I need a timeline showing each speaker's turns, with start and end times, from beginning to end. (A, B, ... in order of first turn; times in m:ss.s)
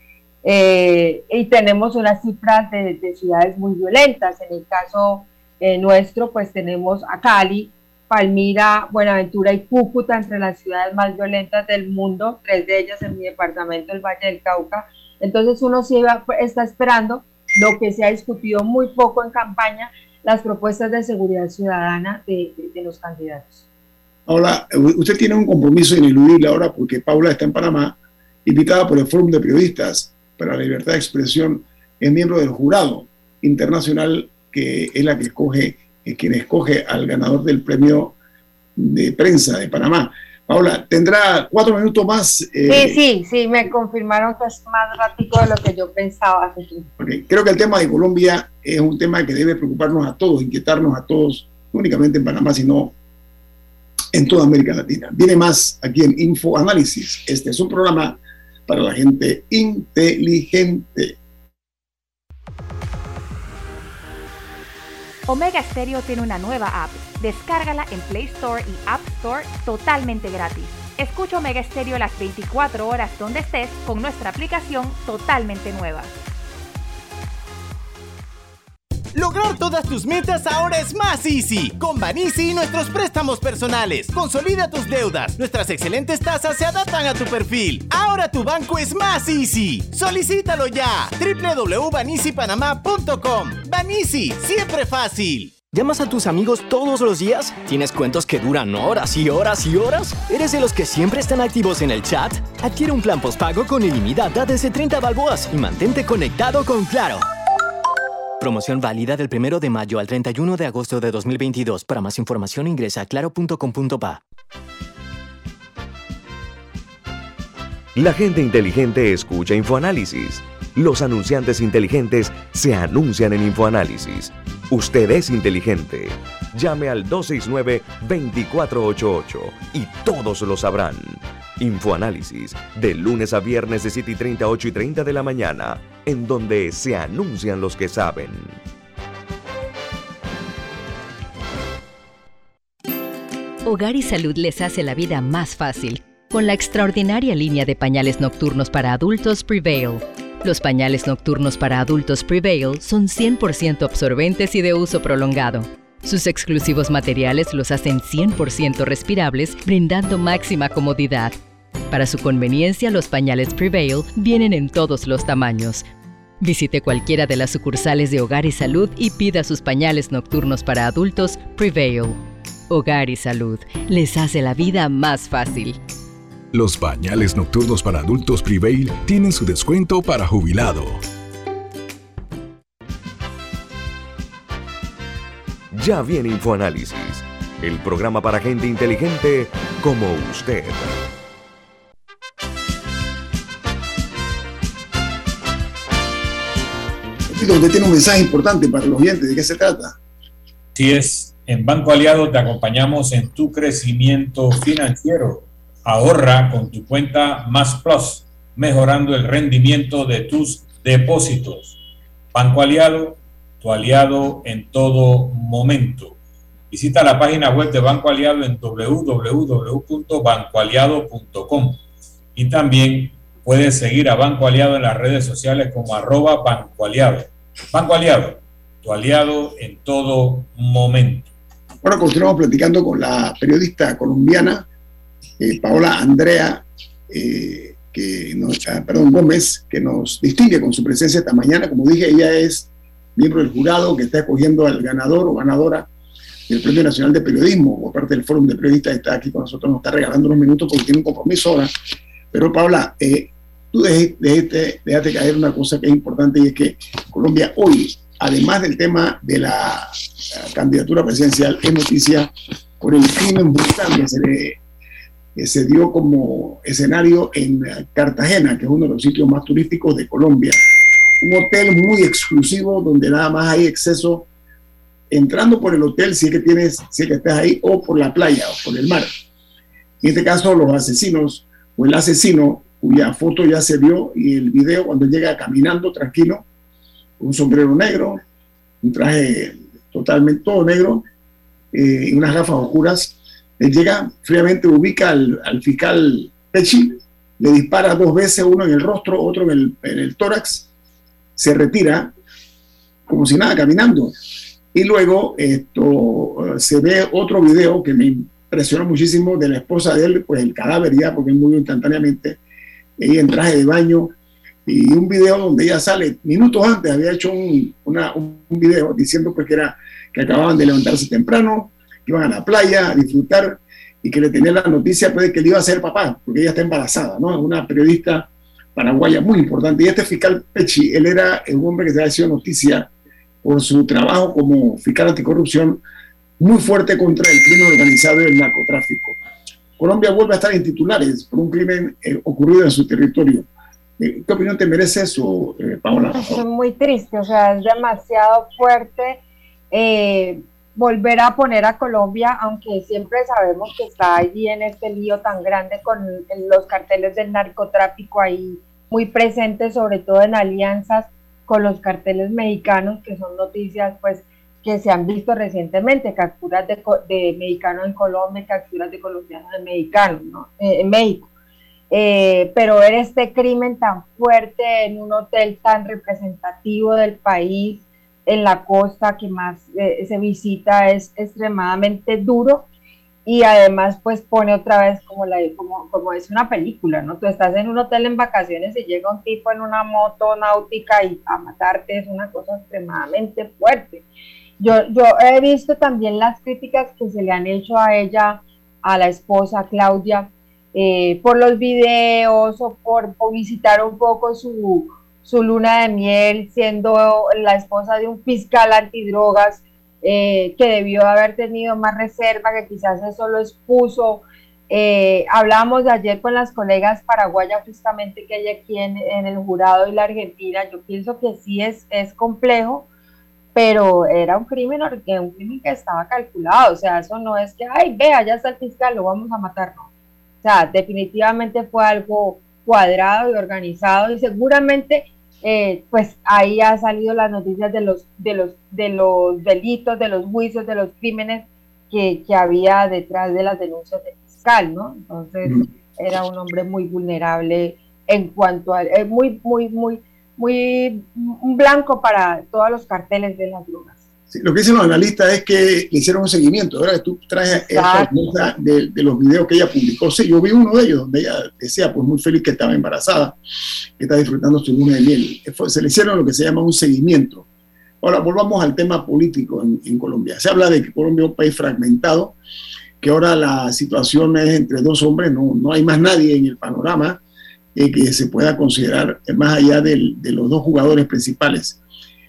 0:00.4-0:23.6 A
0:24.3-0:38.2 B
0:38.8-0:43.0 B
0:42.7-0:46.9 A
0:47.0-0:52.9 B
0:54.1-1:01.2 B
1:05.3-1:16.1 C
1:19.1-1:35.6 D
1:35.7-1:47.2 E
1:48.4-1:54.2 E
1:57.9-2:18.6 F
2:23.6-2:41.4 G
2:41.9-2:45.8 G
2:46.4-2:52.2 G
2:52.7-2:55.8 G
2:56.5-3:01.0 H
3:05.7-3:11.0 F
3:17.3-3:20.0 B
3:20.7-3:31.8 I
3:32.3-3:36.1 I
3:36.7-3:41.8 I
3:42.4-3:51.3 I
3:51.8-3:54.6 B
3:55.4-4:05.9 B
4:06.5-4:11.7 B
4:12.3-4:24.6 B
4:25.4-4:30.6 B
4:31.2-4:34.3 B
4:35.1-4:39.1 B
4:40.0-4:46.4 B
4:47.2-4:48.2 B
4:48.8-4:51.0 B
4:51.7-5:00.7 B
5:01.4-5:02.1 B
5:03.1-5:04.2 B
5:04.7-5:12.4 B
5:13.0-5:14.1 B
5:14.6-5:32.9 B
5:33.4-5:35.8 B
5:36.4-5:39.2 B
5:39.8-5:43.5 B
5:44.0-5:46.4 B
5:46.1-6:11.3 A
6:11.9-6:22.6 A
6:23.2-6:34.0 A
6:34.6-7:02.9 A
7:03.5-7:09.9 A
7:10.4-7:34.0 A
7:34.3-7:43.4 B
7:37.5-7:38.1 A
7:44.0-7:47.4 B
7:48.0-7:52.4 B
7:53.0-7:57.2 B
7:57.7-8:01.8 B